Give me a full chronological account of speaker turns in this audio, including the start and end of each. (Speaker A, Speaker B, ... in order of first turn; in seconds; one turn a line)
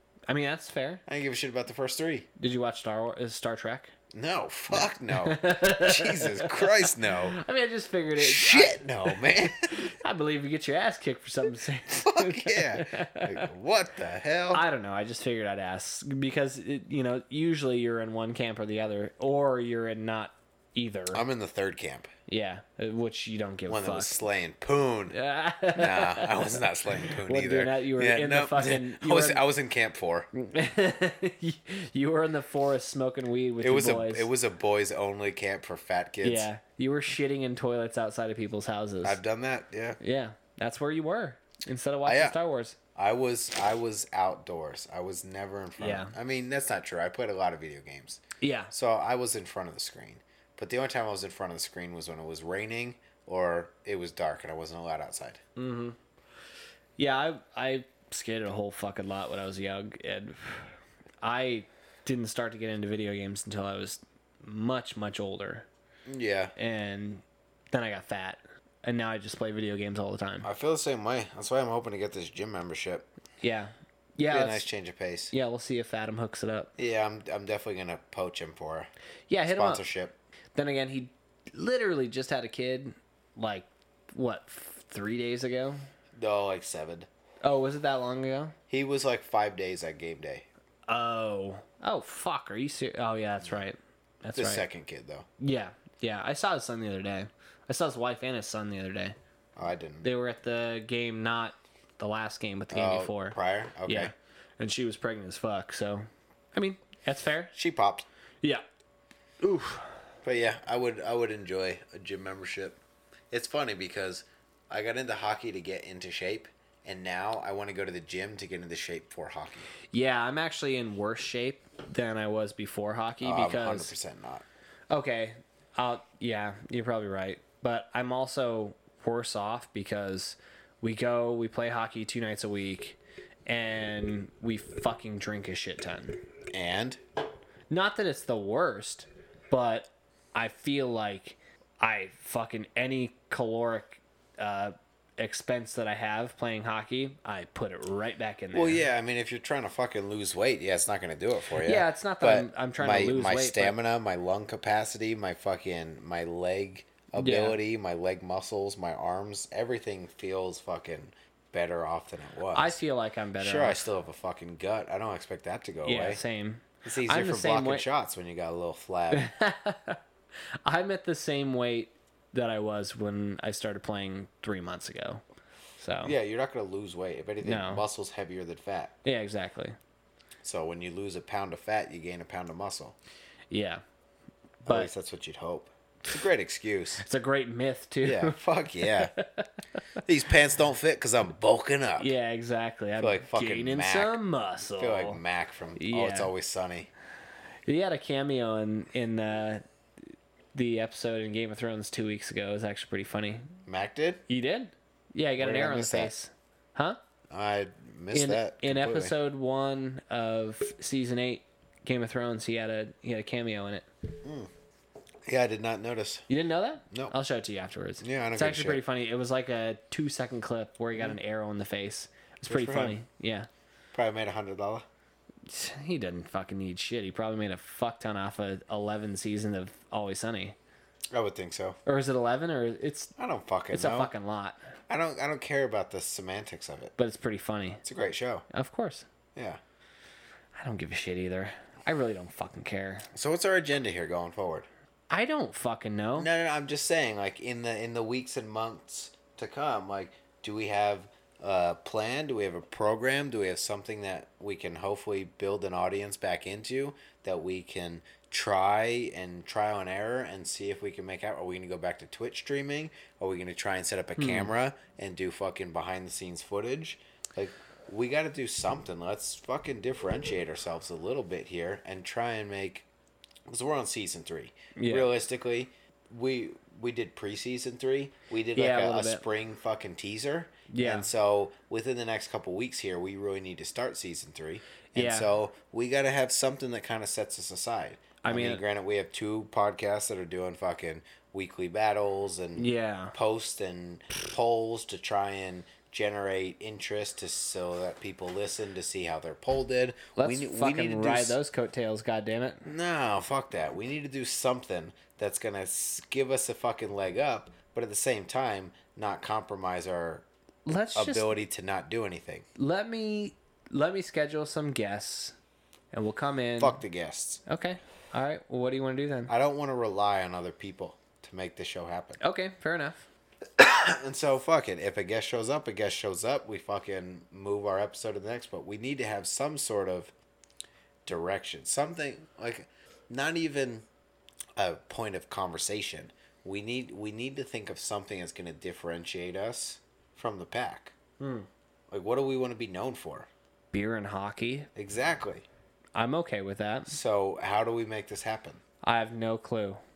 Speaker A: 0.3-1.0
Speaker B: 1.1-2.3
Speaker A: 2.4-3.9
Speaker B: 4.1-7.4
Speaker A: 4.7-13.5
Speaker B: 8.2-9.8
Speaker B: 11.9-14.6
Speaker A: 14.5-21.2
Speaker B: 21.1-22.1
Speaker A: 22.3-24.2
Speaker B: 23.7-25.1
Speaker A: 25.1-29.4
Speaker B: 25.7-30.3
Speaker A: 30.3-34.3
Speaker B: 33.6-36.5
Speaker A: 36.2-39.2
Speaker B: 39.0-40.0
Speaker A: 40.0-42.8
Speaker B: 42.0-42.4
Speaker B: 42.9-55.4
Speaker A: 45.8-46.1
Speaker A: 48.4-48.7
Speaker A: 55.5-56.0
Speaker A: 57.0-65.7
Speaker B: 66.1-66.5
Speaker A: 66.5-70.5
Speaker B: 70.4-73.1
Speaker A: 73.4-74.7
Speaker B: 74.3-75.3
Speaker A: 75.3-76.7
Speaker B: 76.8-78.9
Speaker A: 79.3-79.8
Speaker B: 79.5-80.2
Speaker A: 80.5-85.8
Speaker B: 86.1-87.1
Speaker A: 87.4-88.5
Speaker B: 88.7-90.5
Speaker A: 90.9-94.7
Speaker B: 94.3-95.3
Speaker A: 95.4-99.2
Speaker B: 99.5-100.1
Speaker A: 100.0-107.5
Speaker B: 102.7-104.1
Speaker B: 107.5-108.1
Speaker A: 109.4-109.9
Speaker B: 110.2-112.8
Speaker B: 113.3-119.7
Speaker A: 119.9-123.9
Speaker B: 123.2-124.4
Speaker A: 124.9-136.2
Speaker B: 136.5-137.0
Speaker A: 137.7-148.8
Speaker B: 148.5-162.8
Speaker A: 151.6-153.7
Speaker A: 157.2-157.6
Speaker A: 162.5-163.8
Speaker B: 163.4-166.2
Speaker A: 165.8-167.8
Speaker B: 166.8-169.3
Speaker A: 169.1-170.0
Speaker A: 170.6-175.2
Speaker A: 175.8-176.1
Speaker B: 176.0-179.0
Speaker A: 177.4-177.8
Speaker A: 179.0-179.8
Speaker B: 180.4-182.9
Speaker A: 183.5-183.8
Speaker B: 184.6-187.0
Speaker A: 184.7-184.9
Speaker A: 187.0-189.8
Speaker B: 188.0-189.1
Speaker B: 190.0-192.1
Speaker A: 192.0-195.2
Speaker B: 193.0-196.9
Speaker A: 195.8-196.3
Speaker A: 197.7-199.6
Speaker A: 200.5-203.4
Speaker B: 203.7-204.2
Speaker A: 204.3-207.0
Speaker B: 205.4-206.1
Speaker B: 207.3-209.1
Speaker A: 208.1-213.8
Speaker B: 214.2-214.5
Speaker B: 215.3-216.2
Speaker A: 216.3-223.5
Speaker B: 218.0-218.8
Speaker B: 222.5-223.0
Speaker B: 223.9-224.8
Speaker A: 225.5-230.6
Speaker B: 231.1-231.8
Speaker A: 231.8-233.1
Speaker B: 233.2-234.1
Speaker A: 233.7-234.6
Speaker B: 234.9-236.9
Speaker A: 237.0-237.8
Speaker B: 237.8-238.4
Speaker A: 238.5-239.1
Speaker B: 239.3-239.6
Speaker A: 240.5-243.1
Speaker B: 243.1-244.7
Speaker A: 245.1-246.3
Speaker B: 246.2-272.9
Speaker A: 264.2-264.5
Speaker B: 273.5-301.4
Speaker A: 274.8-275.1
Speaker A: 278.5-279.2
Speaker A: 280.7-281.1
Speaker A: 284.9-285.3
Speaker A: 288.2-288.6
Speaker A: 292.6-293.1
Speaker A: 300.2-302.6
Speaker B: 302.6-310.2
Speaker A: 310.6-311.3
Speaker B: 310.9-312.4
Speaker A: 312.6-315.4
Speaker A: 315.9-316.8
Speaker B: 316.6-317.4
Speaker A: 317.5-319.3
Speaker B: 319.3-322.2
Speaker A: 322.2-323.1
Speaker B: 323.6-330.1
Speaker B: 331.1-333.9
Speaker B: 334.6-340.9
Speaker A: 341.2-341.5
Speaker B: 341.9-343.3
Speaker A: 343.7-344.7
Speaker B: 344.7-345.4
Speaker A: 345.9-347.0
Speaker B: 346.9-348.6
Speaker A: 348.8-349.8